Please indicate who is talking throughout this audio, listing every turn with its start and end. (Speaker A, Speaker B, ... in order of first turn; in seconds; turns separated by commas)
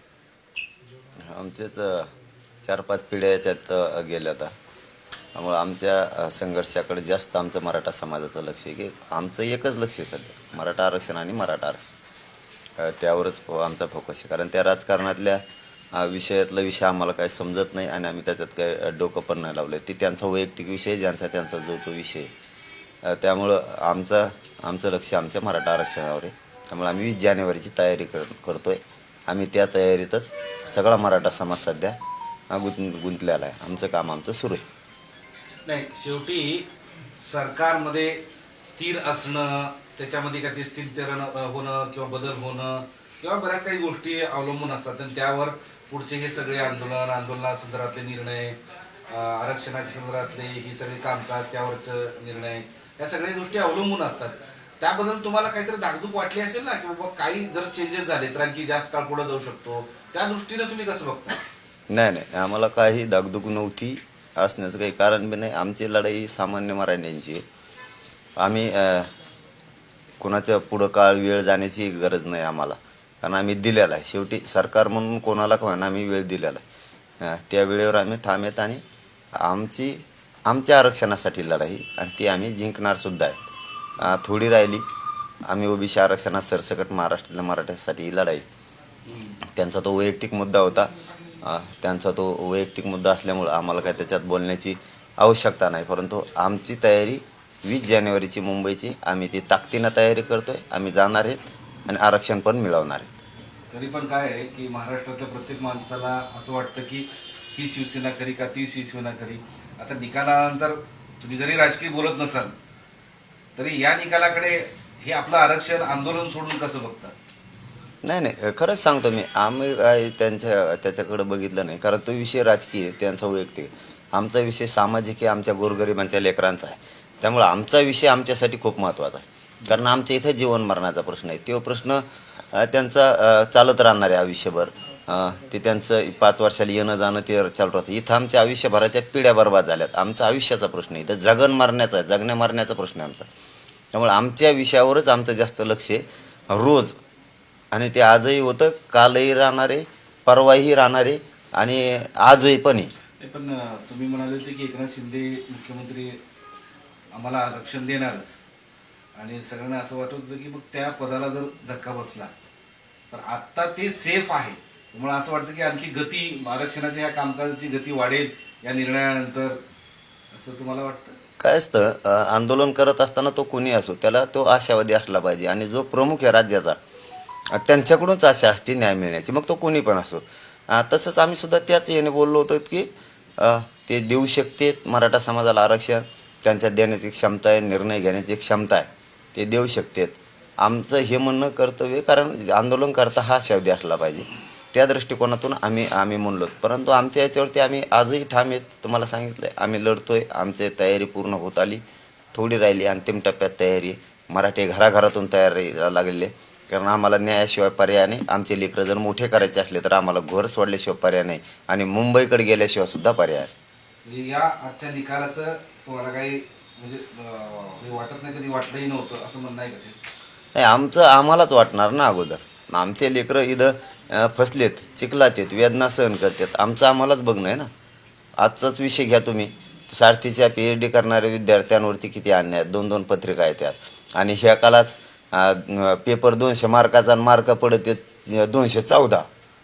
Speaker A: 1.2-2.1, Speaker A: 2.6-4.5, Speaker A: 5.3-11.9, Speaker A: 12.8-22.3, Speaker A: 23.0-31.9, Speaker A: 32.5-34.6, Speaker B: 35.6-61.4, Speaker A: 61.9-67.4, Speaker A: 68.4-69.1, Speaker A: 70.2-76.6, Speaker A: 77.2-78.8, Speaker A: 79.3-83.5, Speaker A: 84.0-84.8, Speaker A: 85.5-88.5, Speaker B: 89.1-89.4, Speaker A: 89.5-103.1, Speaker B: 103.7-112.5, Speaker B: 113.5-117.1, Speaker A: 118.0-143.3, Speaker A: 143.9-147.0, Speaker A: 147.7-152.9, Speaker B: 153.2-156.2, Speaker B: 157.1-158.4, Speaker B: 159.2-162.3, Speaker B: 163.1-169.6, Speaker B: 170.3-171.2, Speaker A: 171.4-176.8, Speaker A: 177.5-201.8, Speaker A: 202.3-213.5, Speaker B: 214.0-220.0, Speaker A: 220.5-227.7, Speaker A: 228.4-239.3